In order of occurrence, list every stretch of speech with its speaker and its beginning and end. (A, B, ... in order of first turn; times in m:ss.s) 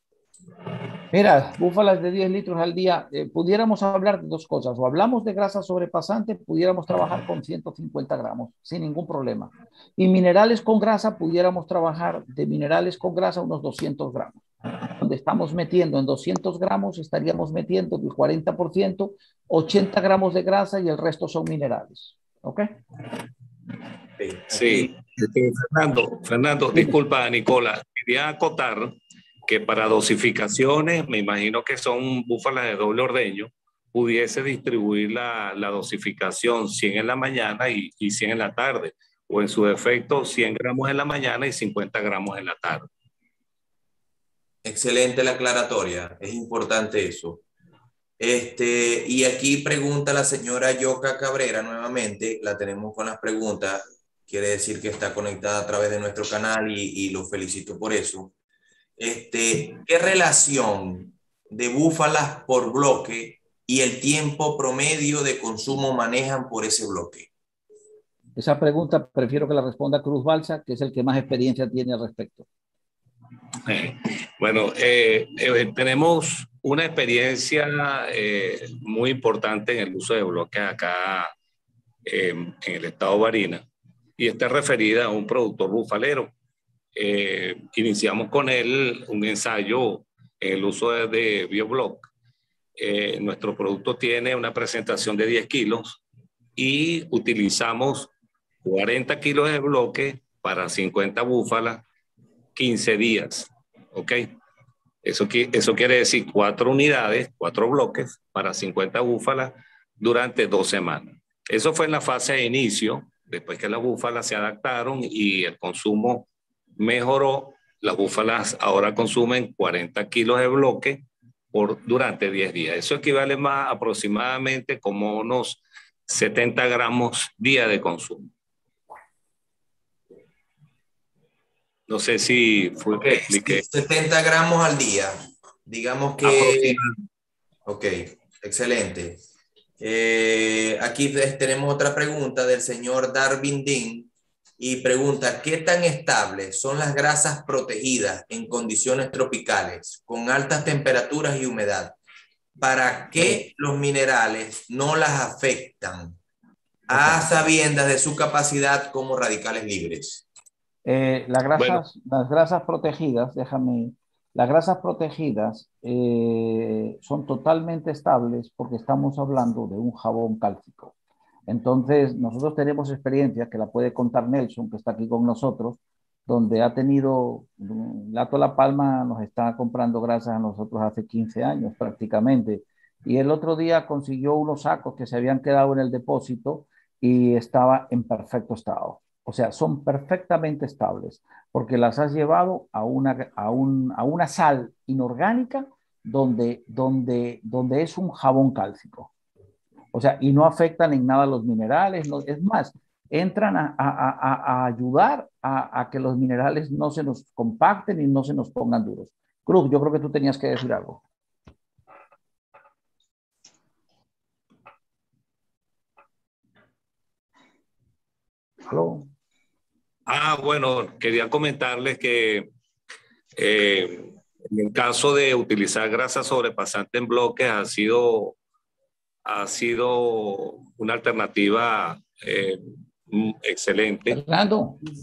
0:01.1-0:22.7 A
0:24.2-0:24.9 B
0:24.5-0:42.9 C
0:44.6-0:47.4 B
0:48.2-0:58.3 B
0:59.0-1:07.3 B
1:08.4-1:12.5 A
1:13.6-1:21.3 C
1:22.1-1:23.6 C
1:24.2-1:26.3 C
1:27.0-1:32.1 C
1:32.8-1:36.0 C
1:36.6-1:38.1 C
1:38.6-1:41.8 C
1:42.6-1:44.3 C
1:45.0-2:08.3 C
2:11.9-2:13.6 C
2:13.0-2:16.8 B
2:16.2-2:16.8 C
2:17.7-2:19.2 B
2:19.8-2:32.0 B
2:32.6-2:36.2 B
2:33.2-2:33.4 A
2:36.9-2:40.2 B
2:36.9-2:37.2 A
2:40.8-2:50.9 A
2:51.5-3:19.1 A
3:19.9-3:31.0 A
3:38.7-3:39.1 A
3:40.1-3:42.5 C
3:43.4-3:48.4 C
3:49.3-3:54.2 C
3:54.1-3:54.8 A